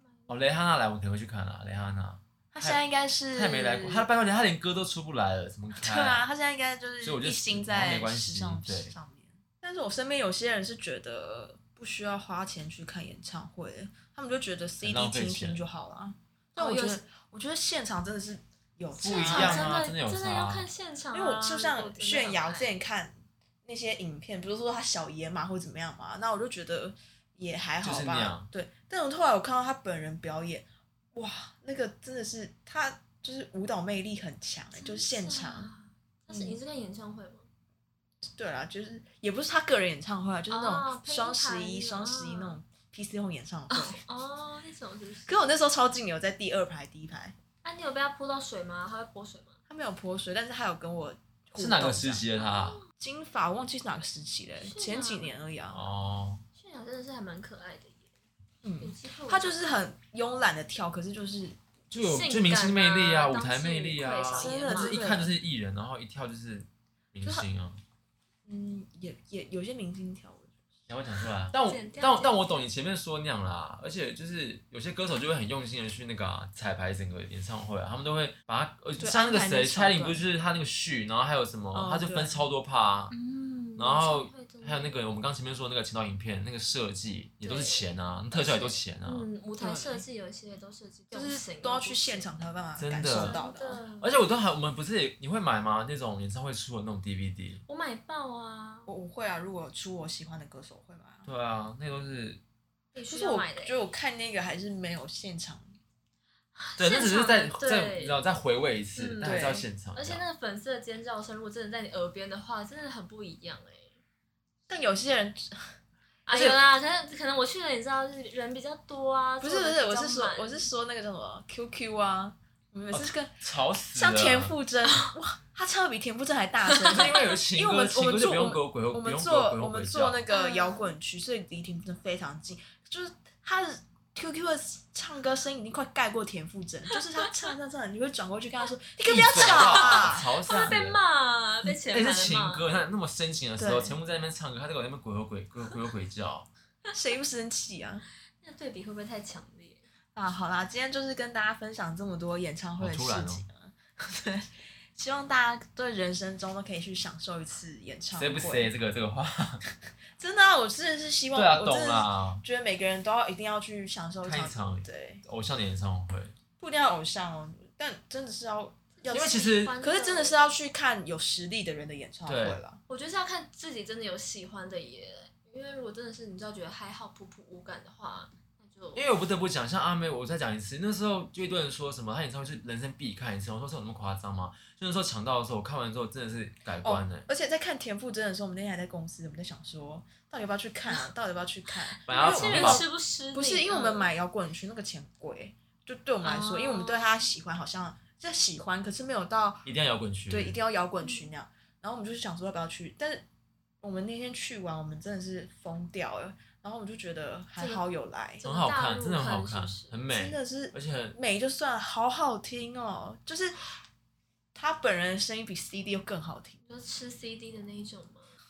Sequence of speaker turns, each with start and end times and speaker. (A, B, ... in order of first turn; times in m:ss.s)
0:00.3-0:06.3 A
0:02.5-0:04.1 B
0:05.7-0:19.8 B
0:07.0-0:08.9 A
0:14.8-0:15.6 A
0:16.6-0:17.0 C
0:19.0-0:22.7 C
0:19.0-0:20.7 A
0:21.1-0:35.7 B
0:27.8-0:28.5 A
0:34.7-0:37.5 C
0:36.3-0:36.6 B
0:38.3-0:44.0 B
0:40.5-0:42.6 C
0:43.7-0:45.4 C
0:45.3-0:47.4 B
0:47.6-0:49.6 C
0:49.7-0:52.2 B
0:51.6-0:52.8 A
0:52.4-0:52.9 C
0:53.0-0:55.9 B
0:54.6-0:55.4 C
0:55.7-0:56.4 A
0:56.6-0:58.1 C
0:58.6-1:01.6 B
0:58.8-0:59.7 C
1:01.9-1:07.8 A
1:02.0-1:05.2 C
1:04.4-1:05.3 B
1:08.4-1:10.7 B
1:10.9-1:23.1 A
1:11.6-1:12.6 C
1:19.0-1:20.2 B
1:21.7-1:22.5 B
1:23.1-1:25.0 C
1:23.8-1:29.3 A
1:27.4-1:32.3 C
1:29.6-1:30.0 B
1:31.1-1:33.8 B
1:32.8-1:33.3 A
1:33.1-1:34.1 C
1:34.0-1:37.6 A
1:37.7-1:38.9 C
1:38.9-1:41.3 B
1:41.3-1:42.4 A
1:42.9-1:43.8 C
1:43.1-1:45.8 B
1:46.6-1:48.2 C
1:46.8-1:50.2 A
1:49.0-1:54.0 C
1:49.2-1:49.7 B
1:54.7-1:55.7 B
1:56.3-2:00.7 C
1:56.3-1:56.6 A
1:59.4-2:03.3 B
2:02.9-2:04.6 A
2:03.9-2:20.8 B
2:06.7-2:07.1 C
2:06.8-2:10.2 A
2:10.3-2:10.9 C
2:19.0-2:21.0 A
2:19.3-2:22.7 C
2:21.7-2:26.5 A
2:23.6-2:24.0 B
2:26.9-2:28.0 B
2:28.4-2:29.8 C
2:30.1-2:38.7 B
2:32.8-2:33.4 A
2:38.2-2:39.6 A
2:39.8-2:45.2 B
2:41.3-2:42.4 A
2:44.2-2:46.4 A
2:46.6-2:52.8 B
2:49.0-2:50.5 C
2:49.1-2:49.8 A
2:52.3-2:52.6 A
2:52.9-2:59.1 C
2:59.0-3:07.3 A
3:06.8-3:19.7 B
3:11.9-3:14.1 C
3:12.1-3:12.8 A
3:16.2-3:17.3 C
3:19.6-3:20.6 A
3:20.3-3:23.2 B
3:21.0-3:21.3 C
3:23.8-3:28.4 B
3:27.6-3:27.8 C
3:28.4-3:30.0 C
3:28.4-3:31.2 A
3:30.1-3:33.7 B
3:34.6-3:36.6 B
3:36.7-3:38.3 C